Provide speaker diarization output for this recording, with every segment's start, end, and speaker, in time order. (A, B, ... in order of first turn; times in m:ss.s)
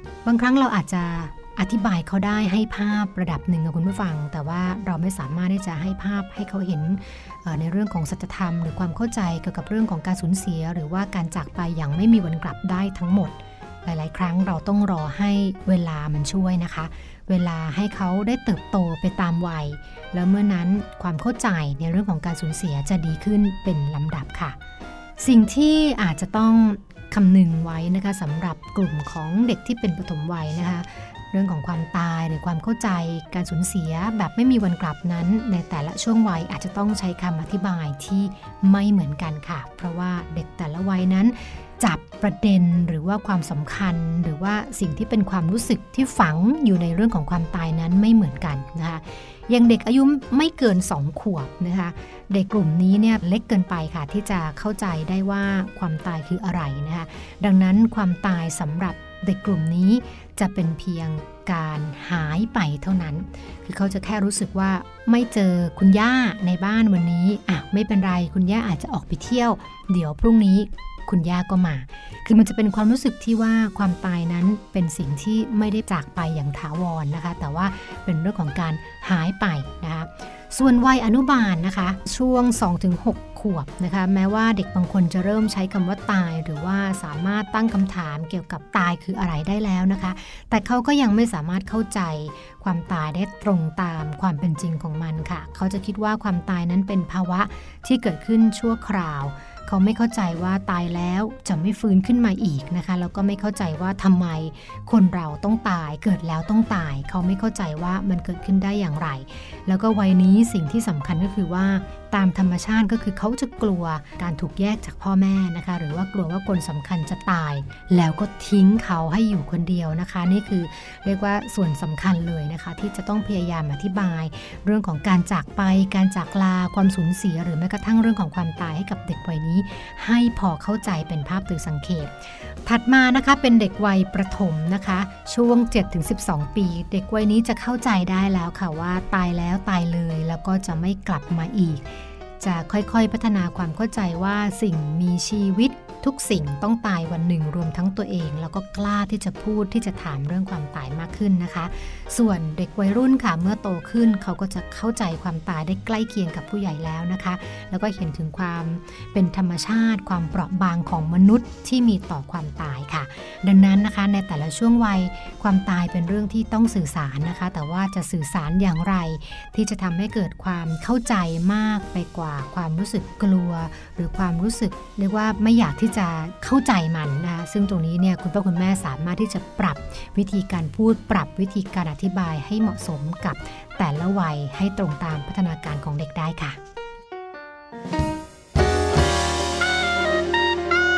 0:00.2-0:24.6 A
0:25.2-3:06.6 A